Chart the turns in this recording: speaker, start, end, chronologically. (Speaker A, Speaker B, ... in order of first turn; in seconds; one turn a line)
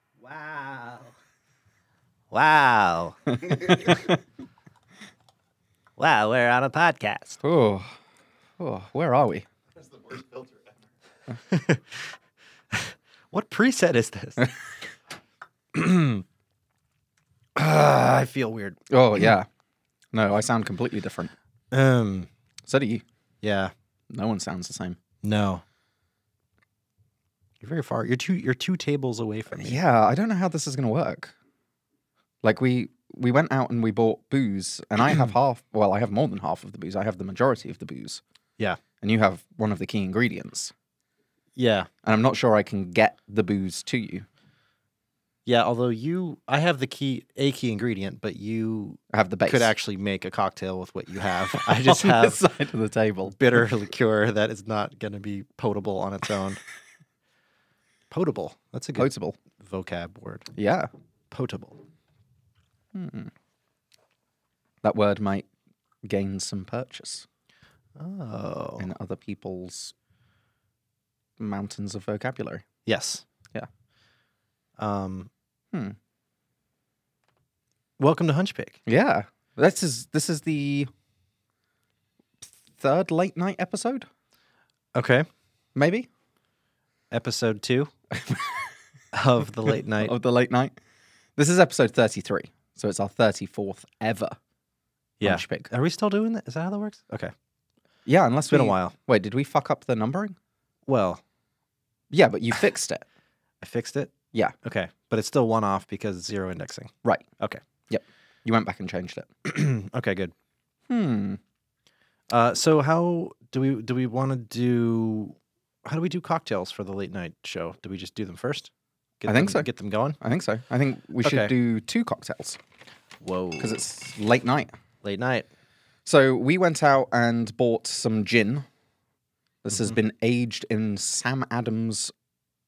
Speaker A: 0.2-1.1
Speaker A: 2.3-3.2
Speaker B: 3.3-4.2
Speaker A: 6.0-7.4
Speaker B: 7.4-7.9
Speaker B: 8.6-9.4
Speaker A: 9.8-10.5
Speaker A: 11.4-12.1
Speaker A: 12.7-14.5
Speaker A: 15.7-16.2
Speaker A: 17.6-18.8
Speaker B: 18.9-19.5
Speaker B: 20.1-21.3
Speaker A: 21.7-22.3
Speaker B: 22.7-23.0
Speaker A: 23.4-23.7
Speaker B: 24.1-25.0
Speaker A: 25.2-25.6
Speaker A: 27.6-29.8
Speaker B: 29.5-31.3
Speaker B: 32.4-38.2
Speaker B: 39.0-40.7
Speaker A: 41.5-41.9
Speaker B: 42.0-44.2
Speaker A: 45.5-52.5
Speaker B: 49.1-49.7
Speaker B: 51.5-53.4
Speaker A: 53.3-56.6
Speaker A: 58.1-60.5
Speaker B: 59.0-59.4
Speaker B: 60.5-60.9
Speaker A: 61.3-61.8
Speaker B: 62.9-63.3
Speaker B: 64.8-65.5
Speaker B: 66.0-67.2
Speaker A: 68.0-68.9
Speaker B: 68.8-69.9
Speaker B: 71.4-72.6
Speaker A: 72.8-73.2
Speaker A: 74.8-75.3
Speaker A: 78.0-78.8
Speaker B: 78.9-80.9
Speaker B: 82.8-84.1
Speaker A: 84.9-85.3
Speaker B: 85.7-86.1
Speaker A: 87.1-87.9
Speaker B: 88.1-88.7
Speaker A: 89.1-90.1
Speaker B: 89.7-90.7
Speaker B: 91.4-94.3
Speaker A: 95.2-97.3
Speaker B: 95.2-95.7
Speaker B: 98.0-100.3
Speaker A: 98.5-98.9
Speaker A: 100.9-101.2
Speaker B: 102.1-103.0
Speaker A: 103.6-107.6
Speaker B: 107.9-109.3
Speaker A: 109.4-110.3
Speaker B: 110.9-111.4
Speaker A: 112.3-118.7
Speaker A: 119.2-120.2
Speaker B: 119.3-119.7
Speaker B: 120.2-122.6
Speaker A: 121.2-121.5
Speaker A: 123.2-123.8
Speaker B: 123.6-124.7
Speaker A: 125.0-125.5
Speaker B: 126.0-128.7
Speaker B: 129.6-132.1